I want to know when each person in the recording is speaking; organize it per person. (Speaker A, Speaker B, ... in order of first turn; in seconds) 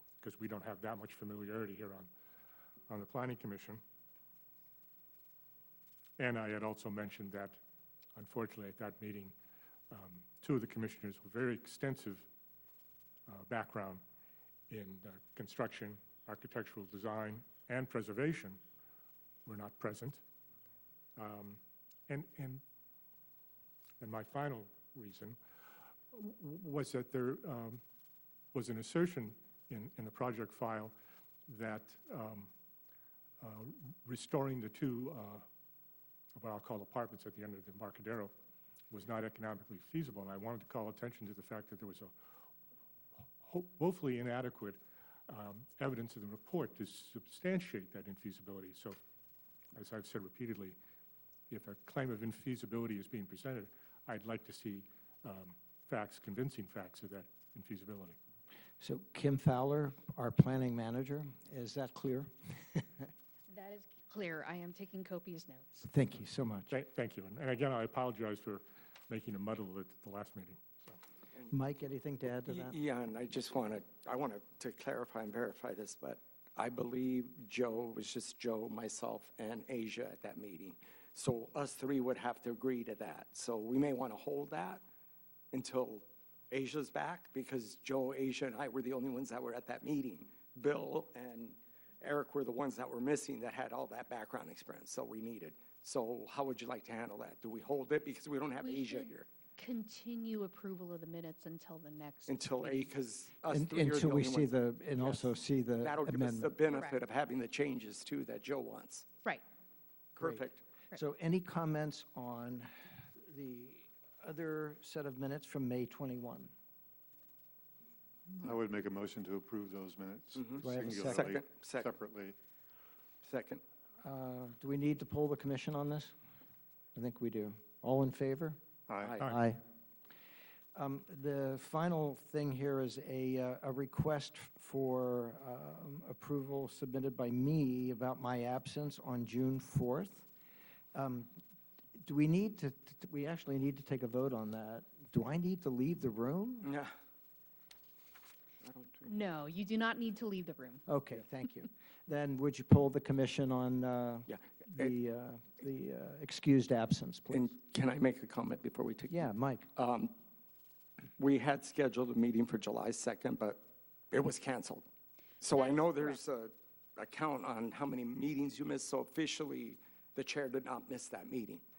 Speaker A: 0.2-2.1, 2.9-3.8, 6.2-7.6, 8.2-9.3, 9.9-12.3, 13.3-14.0, 14.7-18.6, 19.4-20.2, 21.2-22.6, 24.0-25.4, 26.1-27.8, 28.5-30.9, 31.5-32.5, 33.4-35.5, 36.4-38.3, 38.9-42.1, 43.4-49.0, 49.8-50.8, 51.5-58.2, 66.7-71.0
Speaker B: 58.8-63.1, 65.8-66.8, 71.5-72.8, 103.5-106.6, 110.2-116.5, 120.6-121.4, 124.0-126.1, 127.0-128.6, 129.2-129.6, 130.7-140.3, 140.9-141.3, 142.0-146.7, 150.8-157.5, 159.1-159.7
Speaker C: 63.5-65.8, 98.6-102.9, 149.1-150.8, 165.5-166.2
Speaker D: 72.5-84.8, 85.5-99.3, 102.3-109.1, 110.1-110.6, 120.3-121.9, 123.2-123.6, 129.0-129.3, 146.6-146.9, 148.6-149.1, 154.3-154.9, 157.3-160.1, 161.2-164.8, 165.4-171.6
Speaker E: 118.4-122.4, 128.9-129.2